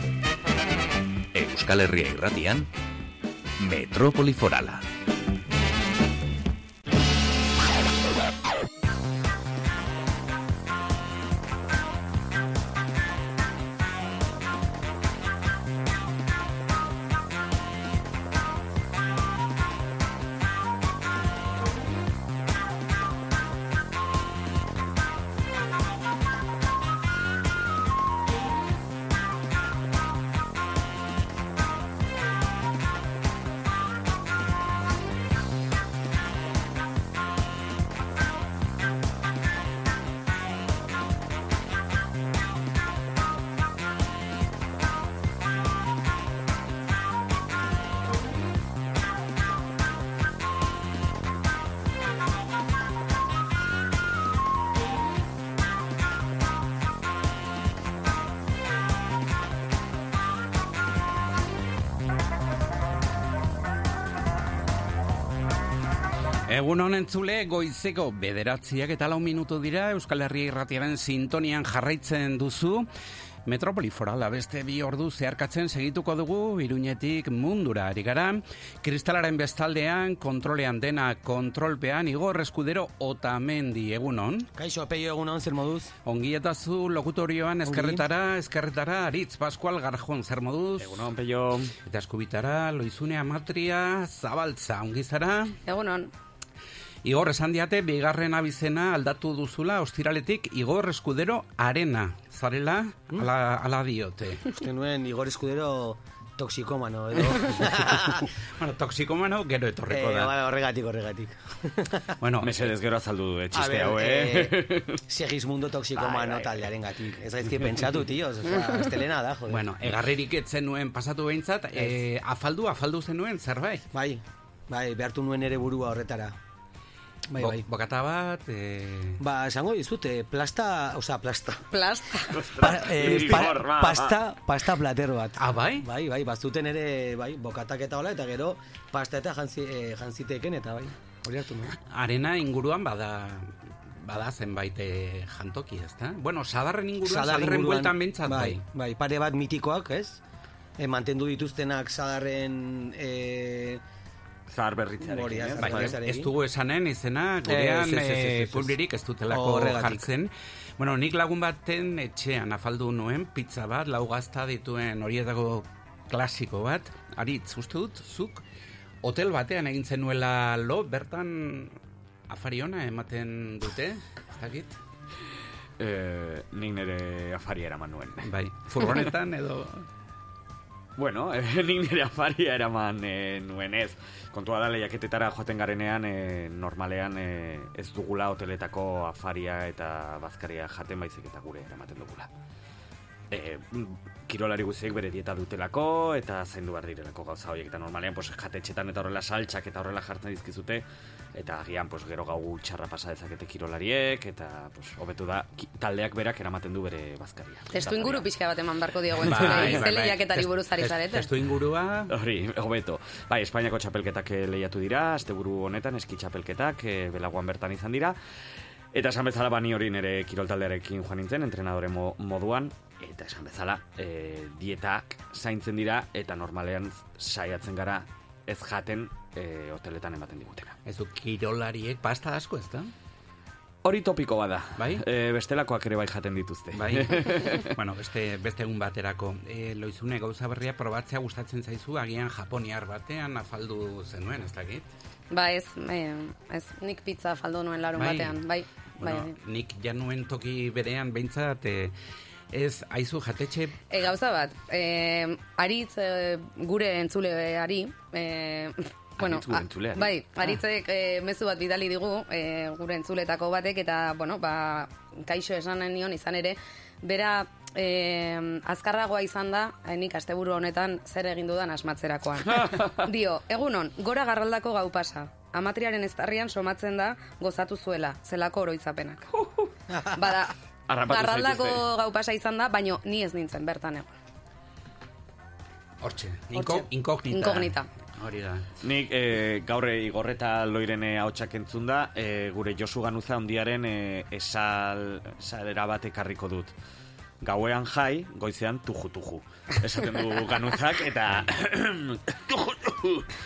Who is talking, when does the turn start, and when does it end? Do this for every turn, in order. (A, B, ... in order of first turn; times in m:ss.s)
0:01.3-0:02.6 A
0:03.6-0:04.8 A
1:06.5-1:12.9 B
1:13.4-1:24.5 B
1:24.5-1:25.9 C
1:26.0-1:31.0 B
1:27.7-1:28.0 C
1:30.8-1:31.7 D
1:31.8-1:35.6 B
1:35.6-1:36.1 E
1:37.0-1:44.4 B
1:44.5-1:48.2 C
1:48.5-1:50.3 B
1:49.9-1:52.1 C
1:52.2-1:52.5 B
1:52.4-1:55.0 D
1:53.5-1:54.5 C
1:55.1-1:59.6 C
1:55.9-1:56.7 D
1:57.5-1:57.8 B
1:58.5-1:58.9 E
1:59.5-2:03.8 B
2:03.9-2:06.4 C
2:07.3-2:07.6 C
2:07.4-2:09.2 B
2:09.2-2:11.6 C
2:11.7-2:12.4 E
2:12.4-2:14.2 D
2:12.4-2:21.7 C
2:15.4-2:15.8 B
2:21.8-2:28.6 B
2:27.0-2:30.2 C
2:30.8-2:33.8 C
2:34.5-2:36.0 D
2:35.0-2:36.3 C
2:35.6-2:48.4 B
2:37.4-2:38.7 C
2:39.3-2:40.0 C
2:49.0-2:54.8 B
2:55.8-2:59.1 D
2:58.2-2:59.9 B
3:01.0-3:12.3 D
3:13.3-3:28.3 D
3:27.7-3:31.3 E
3:29.2-3:32.1 B
3:29.3-3:29.8 D
3:32.1-3:38.2 D
3:38.9-3:50.7 D
3:50.8-3:52.9 B
3:53.8-3:57.7 D
3:54.8-3:55.0 B
3:56.7-4:04.9 B
4:05.3-4:09.3 E
4:07.9-4:08.4 B
4:09.0-4:11.9 B
4:12.5-4:13.8 B
4:13.9-4:39.3 E
4:19.2-4:20.1 D
4:39.9-4:40.2 C
4:40.2-4:40.5 E
4:40.9-4:41.8 D
4:41.1-4:44.1 E
4:46.0-4:48.7 B
4:46.5-4:47.9 E
4:48.8-4:56.7 D
4:57.4-5:03.2 D